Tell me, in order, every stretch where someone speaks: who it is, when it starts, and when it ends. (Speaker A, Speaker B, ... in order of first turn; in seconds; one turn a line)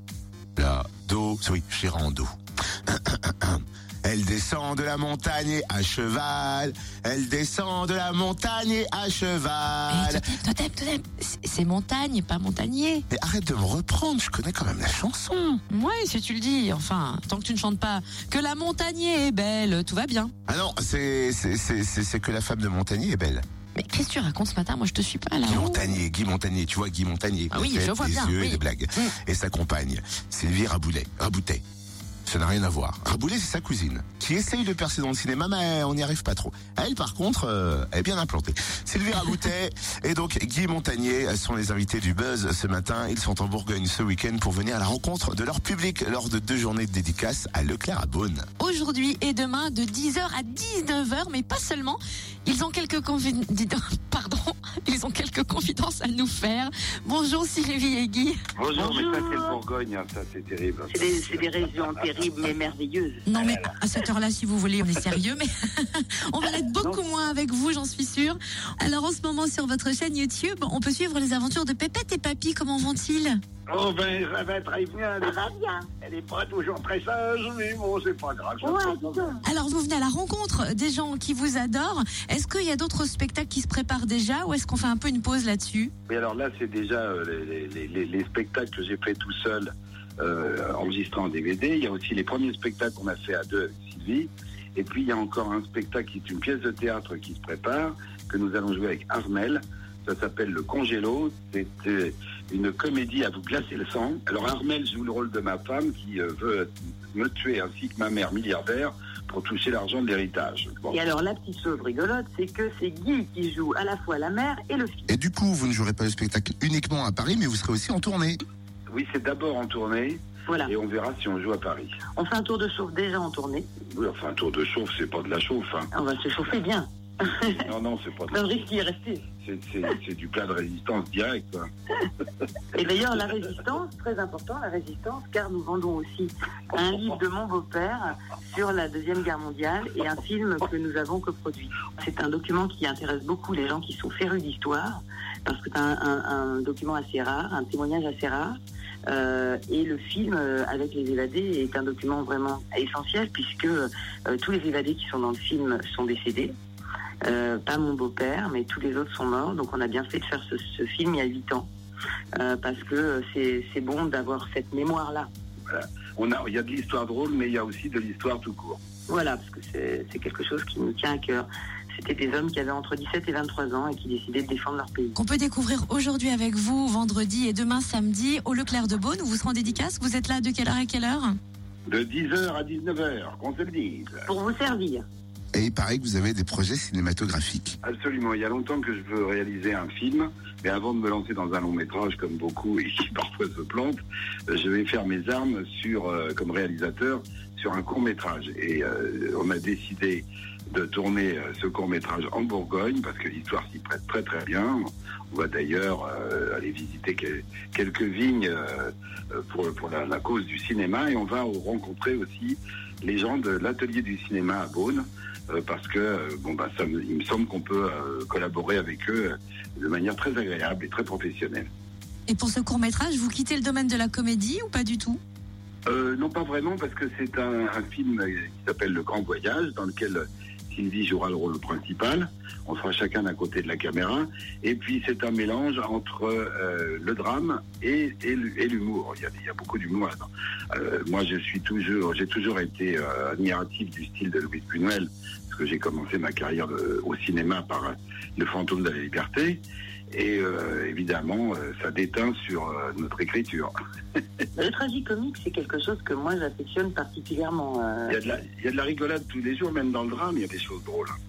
Speaker A: 0.6-2.3
Speaker A: 2.9-10.2
Speaker B: 9.9-13.0
Speaker A: 13.1-15.6
Speaker B: 15.7-20.3
Speaker A: 20.5-23.4
Speaker B: 23.8-25.9
Speaker A: 25.4-31.6
Speaker B: 27.5-29.1
Speaker A: 32.2-48.4
Speaker B: 48.6-58.4
Speaker C: 58.5-62.2
Speaker D: 58.7-59.6
Speaker D: 60.9-63.6
Speaker B: 63.2-73.4
Speaker C: 73.7-75.4
Speaker D: 75.2-75.9
Speaker C: 76.0-79.4
Speaker D: 78.6-79.4
Speaker B: 79.4-85.9
Speaker C: 86.1-111.0
Speaker D: 110.9-115.1
Speaker A: 115.1-118.4
Speaker C: 118.9-122.0
Speaker D: 120.5-120.7
Speaker D: 122.1-123.7
Speaker C: 123.9-125.9
Speaker D: 125.9-127.6
Speaker C: 127.5-128.4
Speaker D: 128.3-129.2
Speaker C: 129.4-131.7
Speaker D: 132.7-156.5
Speaker D: 157.2-161.7
Speaker D: 162.3-165.3
Speaker C: 165.7-168.8
Speaker D: 169.1-175.2
Speaker B: 175.2-181.4
Speaker C: 181.9-184.2
Speaker D: 184.3-185.0
Speaker A: 185.5-187.8
Speaker C: 187.8-221.7
Speaker B: 222.3-225.2
Speaker C: 225.8-254.2
Speaker D: 254.6-258.2
Speaker C: 258.1-261.2